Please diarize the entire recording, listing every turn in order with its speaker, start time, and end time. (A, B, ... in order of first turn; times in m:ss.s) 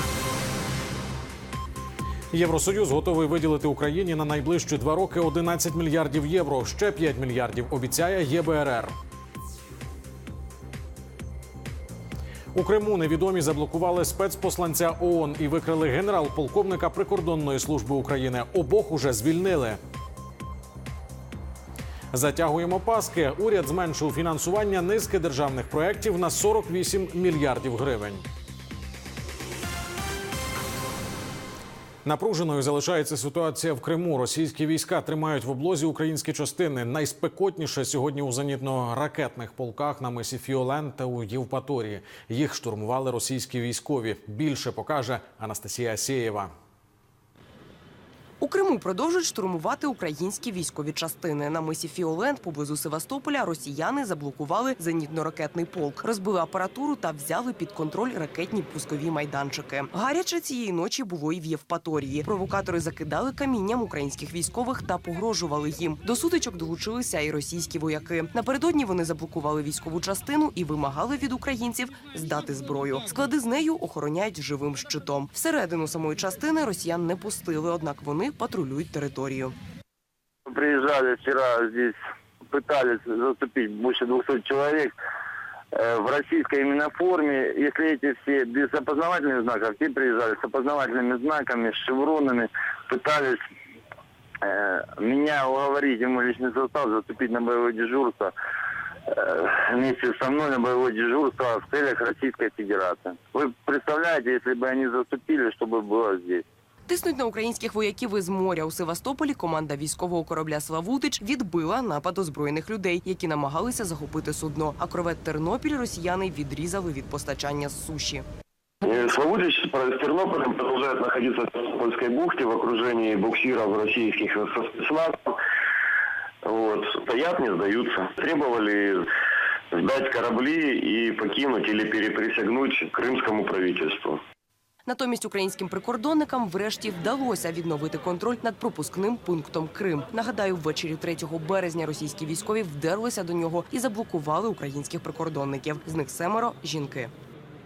0:02.3-0:08.9 A
0:12.5-0:19.8 A
0:22.1-0:28.2 A
0:32.0-0:46.5 A
0:48.4-1:19.5 B
1:20.5-1:22.0 C
1:22.5-1:24.9 C
1:25.7-1:33.4 C
1:34.4-1:38.3 C
1:39.1-1:46.4 C
1:46.9-1:58.2 B
1:58.8-2:05.4 D
2:06.4-2:09.1 D
2:09.7-2:14.2 D
2:14.8-2:27.1 B